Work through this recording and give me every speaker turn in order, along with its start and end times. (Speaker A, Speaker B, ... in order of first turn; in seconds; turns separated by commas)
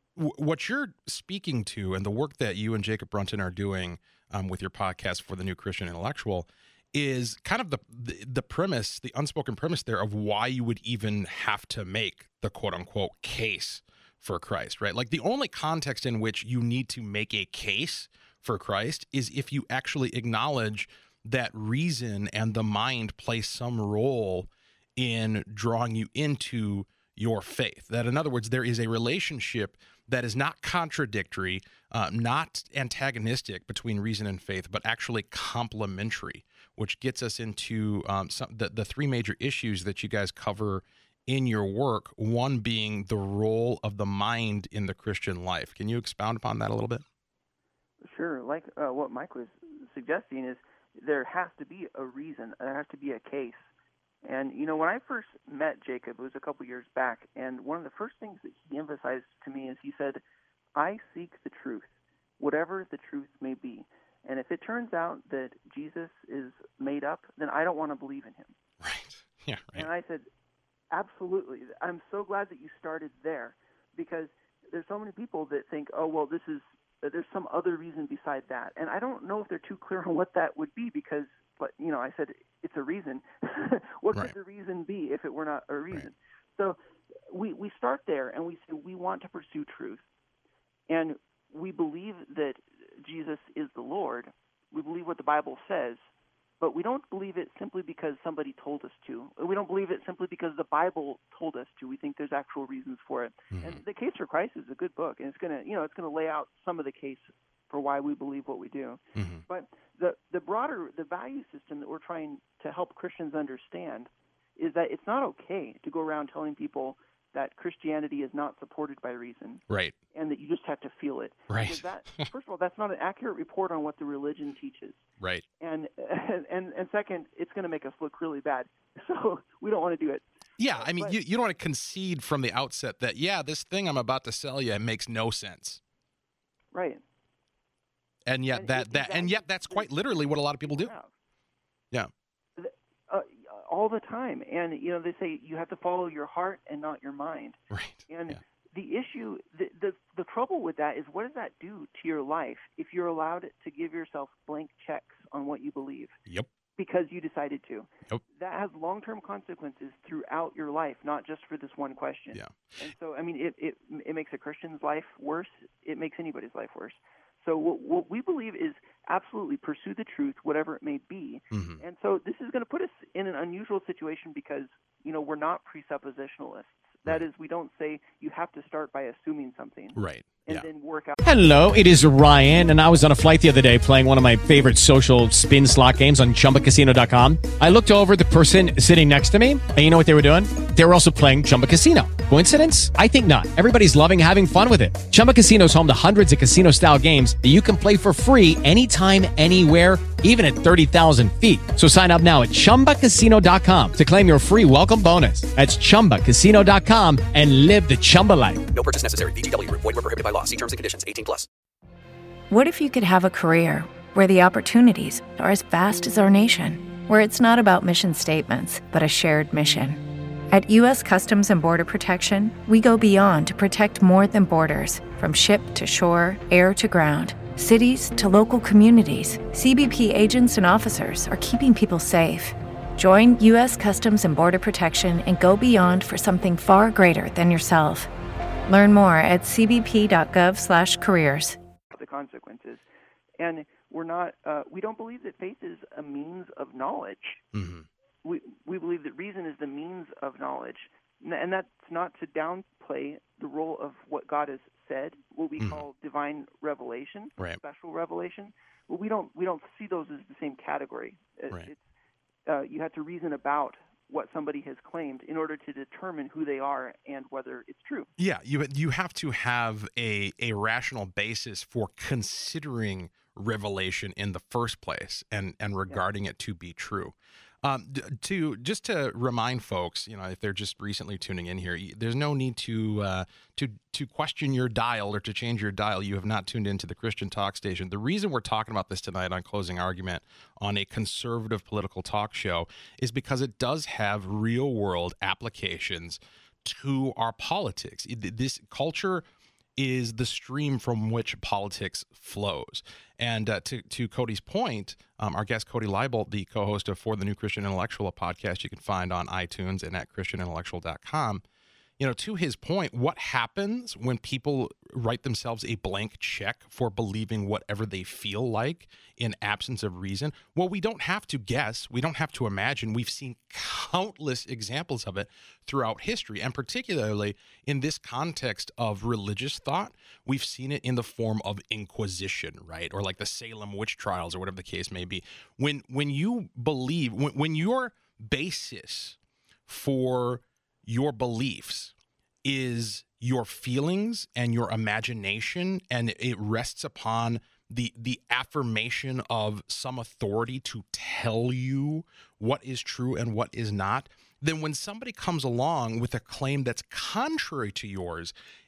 Speaker A: 0.1-47.0, Speaker B: 48.0-53.7, Speaker B: 54.2-60.2, Speaker B: 60.7-68.5, Speaker A: 68.8-69.9, Speaker B: 69.7-70.2, Speaker B: 70.9-86.8, Speaker B: 87.3-90.0, Speaker B: 90.9-125.0, Speaker A: 103.5-103.8, Speaker A: 109.1-109.4, Speaker A: 119.7-120.0, Speaker A: 121.5-122.3, Speaker B: 125.6-131.2, Speaker A: 130.6-135.8, Speaker B: 136.7-137.0, Speaker A: 138.2-140.9, Speaker B: 138.5-141.1, Speaker B: 142.6-156.2, Speaker A: 147.7-148.4, Speaker B: 156.8-181.2, Speaker A: 171.5-171.8, Speaker A: 179.9-180.7, Speaker C: 181.2-208.6, Speaker D: 208.7-211.5, Speaker E: 212.5-238.1, Speaker E: 238.7-241.6, Speaker B: 241.9-242.8, Speaker B: 243.4-247.4, Speaker A: 247.5-247.9, Speaker B: 248.2-261.9, Speaker B: 262.5-268.1, Speaker A: 268.2-299.2, Speaker A: 299.8-311.4, Speaker A: 312.0-341.9, Speaker A: 342.4-358.3